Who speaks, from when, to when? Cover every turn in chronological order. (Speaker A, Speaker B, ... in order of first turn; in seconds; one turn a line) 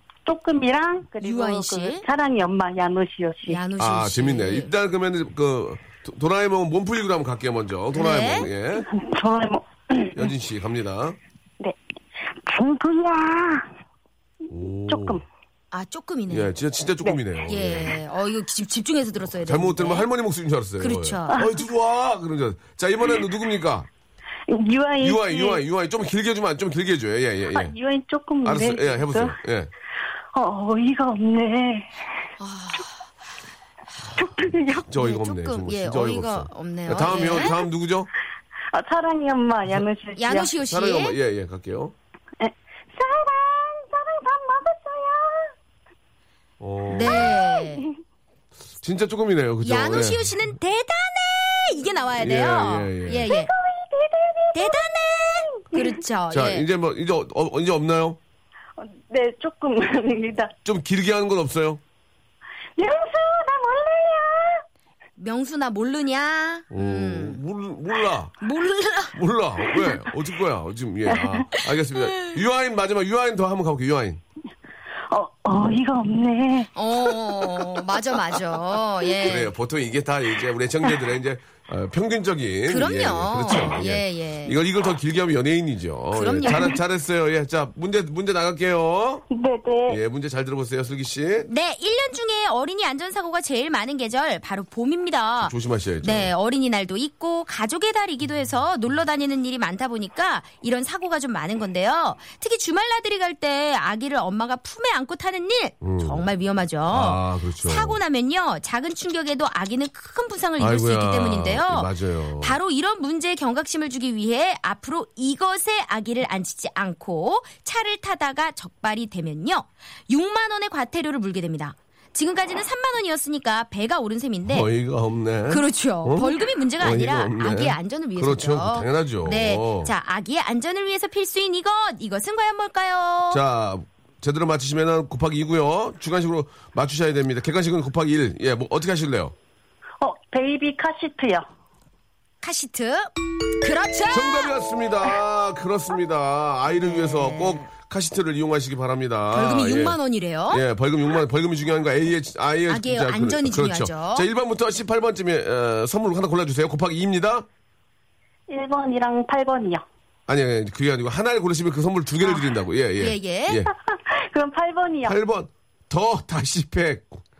Speaker A: 0.2-3.6
Speaker B: 1.2-2.0
Speaker B: 3.5-4.7
Speaker C: 3.8-8.9
Speaker B: 7.9-8.5
Speaker A: 8.8-10.3
Speaker C: 10.2-11.2
Speaker A: 12.4-13.7
Speaker C: 14.5-15.2
Speaker A: 14.5-15.2
Speaker B: 15.7-16.5
Speaker C: 16.3-18.0
Speaker B: 17.5-20.1
Speaker C: 19.4-23.9
Speaker B: 20.8-21.4
Speaker A: 21.3-21.6
Speaker A: 24.5-25.6
Speaker C: 25.0-27.8
Speaker A: 27.5-29.4
Speaker C: 28.4-29.7
Speaker A: 30.3-31.9
Speaker B: 32.4-33.0
Speaker A: 34.2-34.9
Speaker C: 34.9-38.1
Speaker B: 35.0-37.6
Speaker A: 38.7-40.5
Speaker B: 40.2-41.2
Speaker C: 40.7-42.0
Speaker A: 42.4-45.5
Speaker C: 46.6-47.4
Speaker B: 46.9-47.9
Speaker A: 47.0-47.9
Speaker C: 48.8-50.3
Speaker B: 49.6-53.5
Speaker C: 52.2-53.3
Speaker A: 53.3-56.0
Speaker B: 54.5-56.7
Speaker C: 56.3-58.2
Speaker A: 58.8-60.5
Speaker C: 60.7-61.8
Speaker A: 62.8-64.6
Speaker B: 65.2-67.4
Speaker C: 66.7-68.3
Speaker B: 68.4-69.2
Speaker C: 69.1-74.2
Speaker A: 71.1-71.4
Speaker A: 75.1-76.7
Speaker B: 76.8-79.5
Speaker C: 79.2-89.2
Speaker B: 82.7-84.6
Speaker B: 86.1-86.7
Speaker A: 89.3-90.0
Speaker C: 89.9-91.5
Speaker B: 91.5-124.7
Speaker C: 95.4-96.3
Speaker C: 105.8-106.3
Speaker C: 106.9-108.0
Speaker C: 110.6-112.6
Speaker C: 124.5-129.9
Speaker B: 125.5-133.4
Speaker C: 133.3-139.3
Speaker A: 140.0-141.4
Speaker B: 142.4-144.5
Speaker C: 144.1-150.0
Speaker B: 146.8-147.7
Speaker B: 149.3-150.6
Speaker C: 150.5-157.5
Speaker B: 152.7-154.3
Speaker A: 158.5-159.8
Speaker C: 160.3-163.7
Speaker B: 163.0-163.7
Speaker A: 163.8-165.2
Speaker C: 165.1-167.2